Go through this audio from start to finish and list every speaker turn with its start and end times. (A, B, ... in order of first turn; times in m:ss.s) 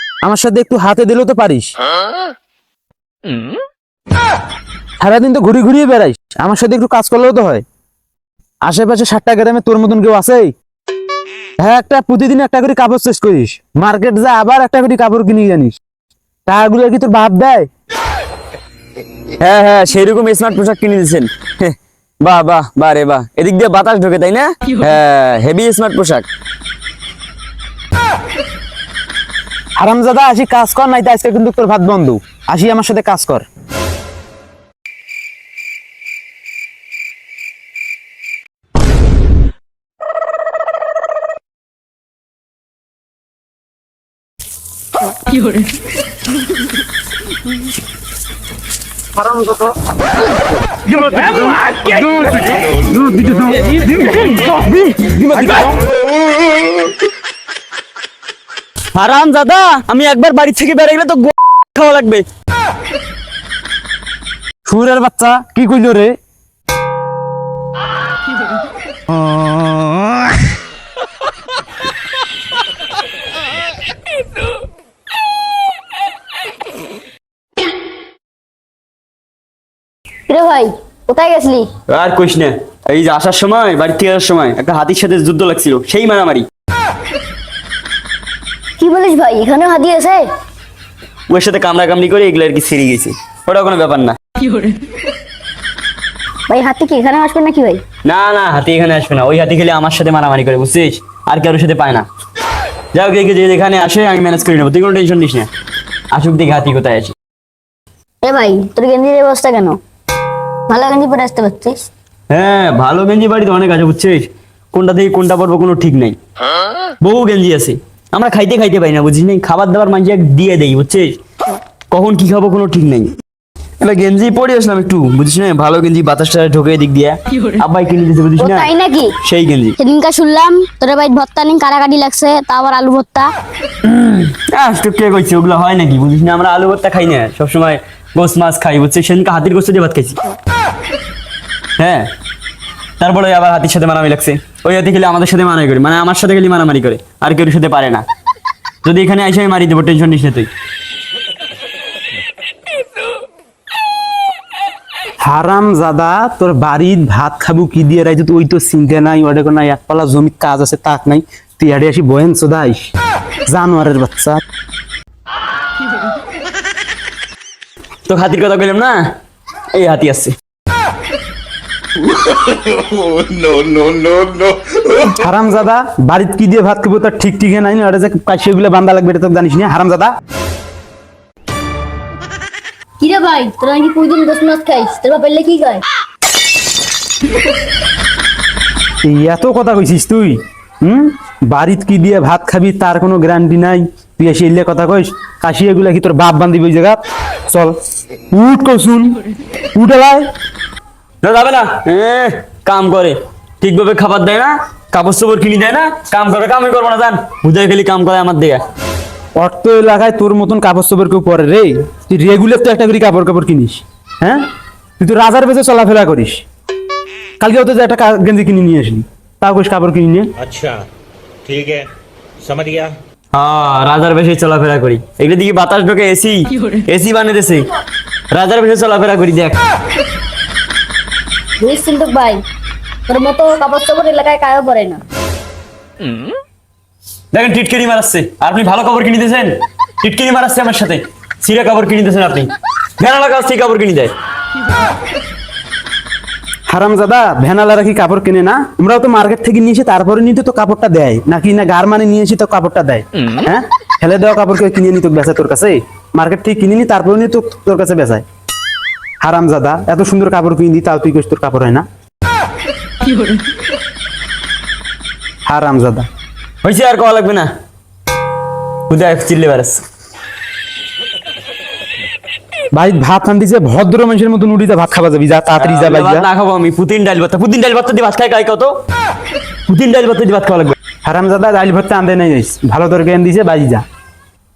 0:00.2-0:01.7 A
0:05.0-0:07.6 A
0:08.6-0:10.5 A
0:11.6-0:15.8 A
0:16.5-0:17.7 A
0:19.4-0:26.3 B
0:29.8-0:33.5 A
0:49.2-0:49.8 A
0:50.9-0:55.8 A
0:58.9-1:02.2 B
1:04.6-1:06.1 A
1:20.3-1:21.7 C
1:21.9-1:26.5 B
1:28.8-1:30.3 C
1:31.3-1:34.2 B
1:36.5-1:37.8 C
1:38.0-1:42.1 B
1:42.9-1:45.5 B
1:46.1-1:47.1 B
1:48.2-1:49.8 C
1:50.7-1:51.9 C
1:52.3-1:56.2 B
1:57.0-2:01.2 B
2:01.9-2:03.1 B
2:03.8-2:08.7 B
2:08.4-2:09.1 C
2:09.2-2:09.8 B
2:09.8-2:13.3 C
2:13.8-2:20.2 B
2:21.8-2:22.1 B
2:23.0-2:28.0 B
2:28.8-2:30.5 B
2:35.2-2:42.9 A
2:43.5-2:44.4 A
2:48.0-2:49.1 B
2:49.7-2:50.3 B
2:55.0-3:00.1 A
3:03.0-3:05.8 C
3:09.0-3:17.8 A
3:18.3-3:19.2 A
3:19.7-3:20.3 A
3:21.2-3:28.6 B
3:29.4-3:34.5 A
3:35.0-3:36.4 A
3:37.4-3:40.3 A
3:43.3-3:47.6 B
3:48.3-3:49.6 B
3:51.6-3:52.4 C
3:53.1-3:55.0 C
3:57.3-4:04.1 B
4:06.7-4:18.2 A
4:19.2-4:21.8 A
4:25.4-4:26.1 A
4:26.6-4:27.5 B
4:28.9-4:29.8 B
4:32.7-4:36.3 A
4:35.6-4:38.8 B
4:39.7-4:40.8 B
4:41.0-4:43.8 A